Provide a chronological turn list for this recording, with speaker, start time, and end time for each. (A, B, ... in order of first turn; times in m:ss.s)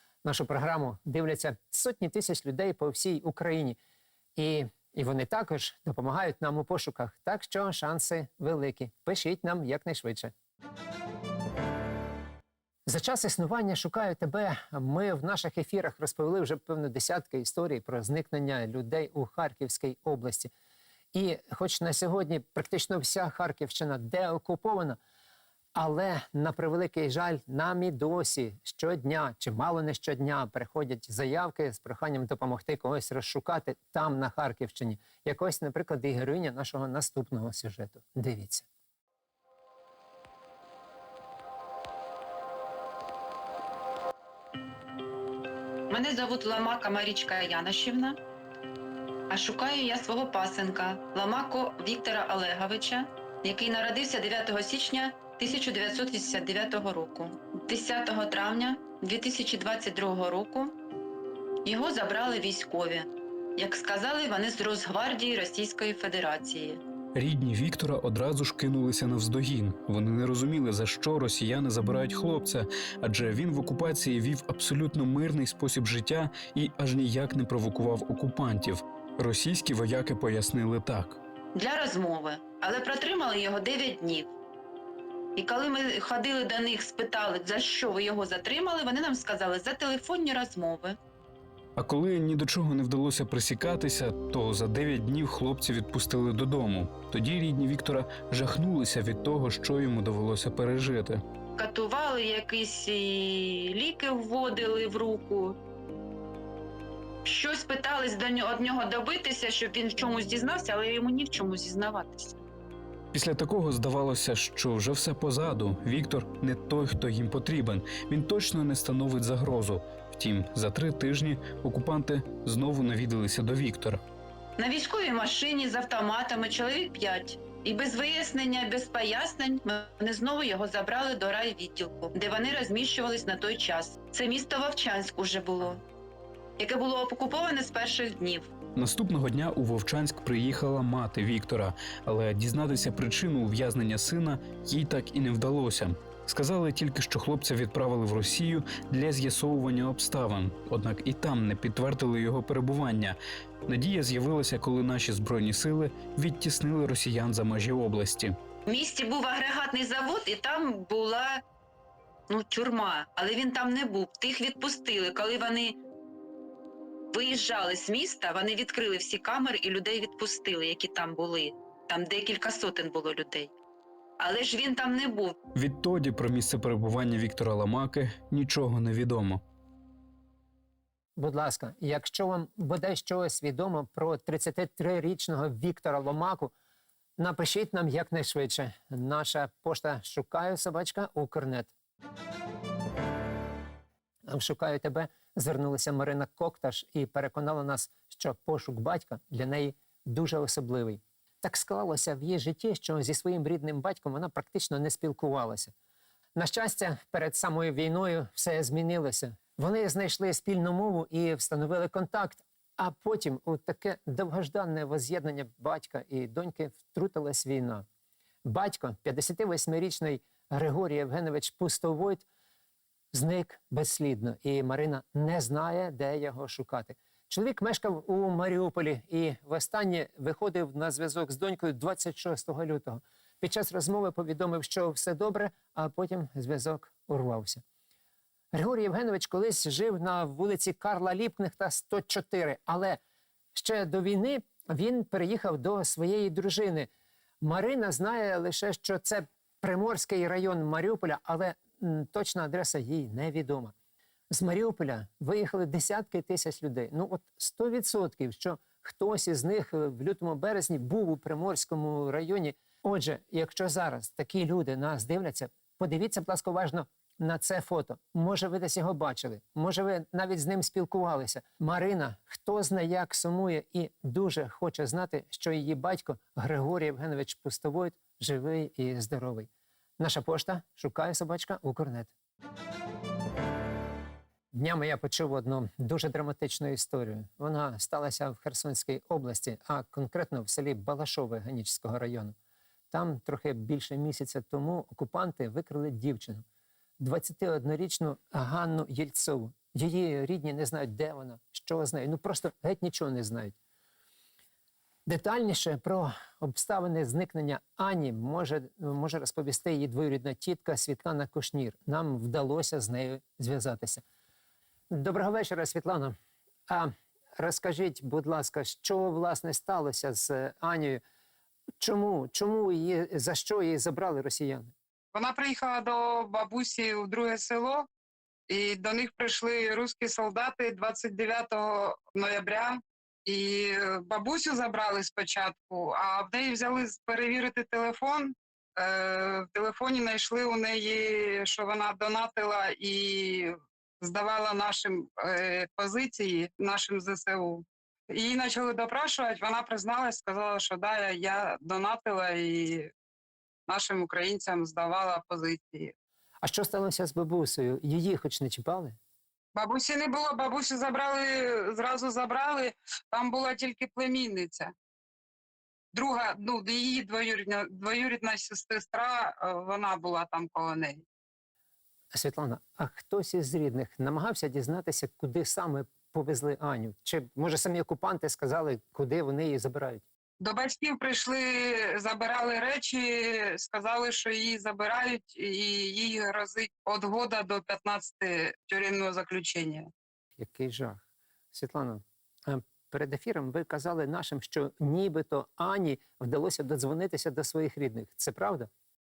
0:00.2-0:03.8 A
0:04.4-0:10.3 A
0:12.9-0:20.5 A
0:21.1-0:25.0 A
0:25.7-0:38.7 A
0:45.9-0:48.2 B
0:49.3-1:00.8 B
1:01.6-1:06.8 B
1:07.1-1:21.2 C
1:21.5-1:24.3 B
1:25.3-1:31.0 B
1:31.8-1:41.2 C
1:41.6-1:45.6 B
1:47.2-1:52.4 B
1:53.1-2:04.0 C
2:04.6-2:15.8 B
2:16.6-2:18.5 B
2:18.8-2:38.4 C
2:38.6-2:41.4 B
2:42.3-2:45.8 B
2:47.1-2:53.5 B
2:54.2-2:55.4 B
2:55.5-2:59.4 C
3:01.2-3:06.5 A
3:07.2-3:11.7 A
3:14.3-3:25.7 A
3:26.4-3:37.8 A
3:38.4-3:42.2 A
3:43.1-3:57.6 A
3:58.5-4:03.0 A
4:03.5-4:06.9 A
4:07.4-4:13.7 A
4:14.3-4:42.1 A
4:44.5-4:52.3 A
4:52.9-4:56.4 A
4:57.0-5:03.5 A
5:05.0-5:14.0 A
5:14.9-5:16.1 A
5:16.7-5:21.0 A
5:21.8-5:24.7 A
5:25.1-5:27.9 D
5:28.5-5:52.9 D
5:53.7-5:55.9 D
5:56.4-5:59.0 A
5:59.5-6:04.7 D
6:05.9-6:11.0 D
6:12.1-6:20.0 A
6:20.4-6:29.9 D
6:30.4-6:38.7 A